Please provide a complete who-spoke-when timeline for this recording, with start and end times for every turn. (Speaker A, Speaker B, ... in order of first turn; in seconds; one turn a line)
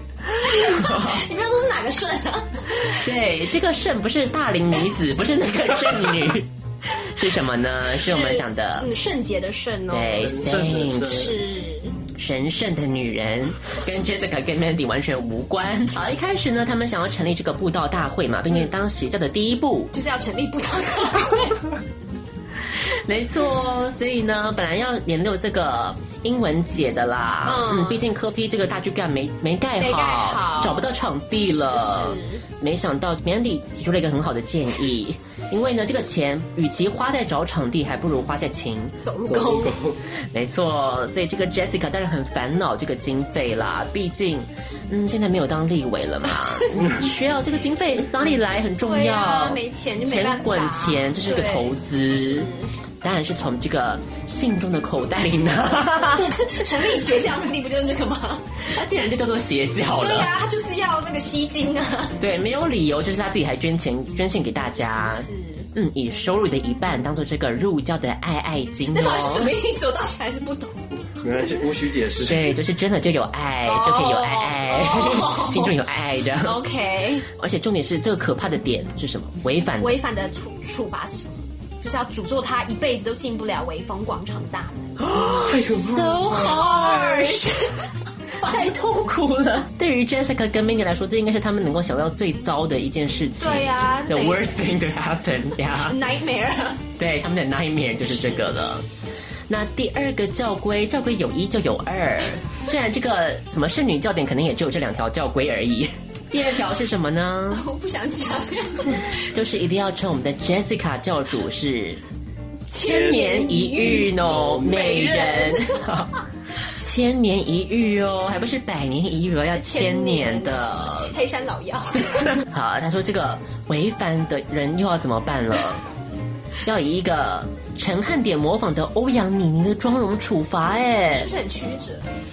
Speaker A: 0.4-3.0
Speaker B: 0.5-1.2
Speaker B: 2.8-8.9
Speaker A: 8.0-12.0
Speaker B: 9.9-11.4
Speaker C: 10.2-11.3
Speaker B: 12.1-19.9
Speaker A: 19.9-21.7
Speaker B: 22.9-39.0
Speaker A: 27.4-28.0
Speaker A: 29.8-30.9
Speaker A: 31.4-32.4
Speaker A: 39.0-39.8
Speaker C: 39.2-40.0
Speaker B: 40.3-52.5
Speaker A: 48.8-52.7
Speaker B: 53.0-56.3
Speaker A: 56.1-58.7
Speaker B: 58.7-60.3
Speaker A: 59.9-62.2
Speaker B: 62.2-69.5
Speaker A: 64.8-65.7
Speaker A: 68.9-70.8
Speaker C: 71.2-72.5
Speaker B: 72.2-76.6
Speaker A: 73.6-75.8
Speaker A: 76.4-77.3
Speaker B: 77.3-80.0
Speaker A: 79.8-84.9
Speaker B: 85.0-87.5
Speaker C: 85.4-86.8
Speaker A: 86.3-87.9
Speaker B: 88.4-96.0
Speaker A: 93.4-94.5
Speaker A: 95.8-96.8
Speaker B: 97.0-98.8
Speaker B: 99.5-107.7
Speaker A: 107.5-109.1
Speaker B: 109.3-112.0
Speaker A: 112.7-115.9
Speaker B: 112.8-116.2
Speaker C: 112.8-114.8
Speaker B: 116.7-121.2
Speaker A: 119.5-122.4
Speaker B: 122.4-125.8
Speaker B: 126.6-131.3
Speaker A: 131.1-132.1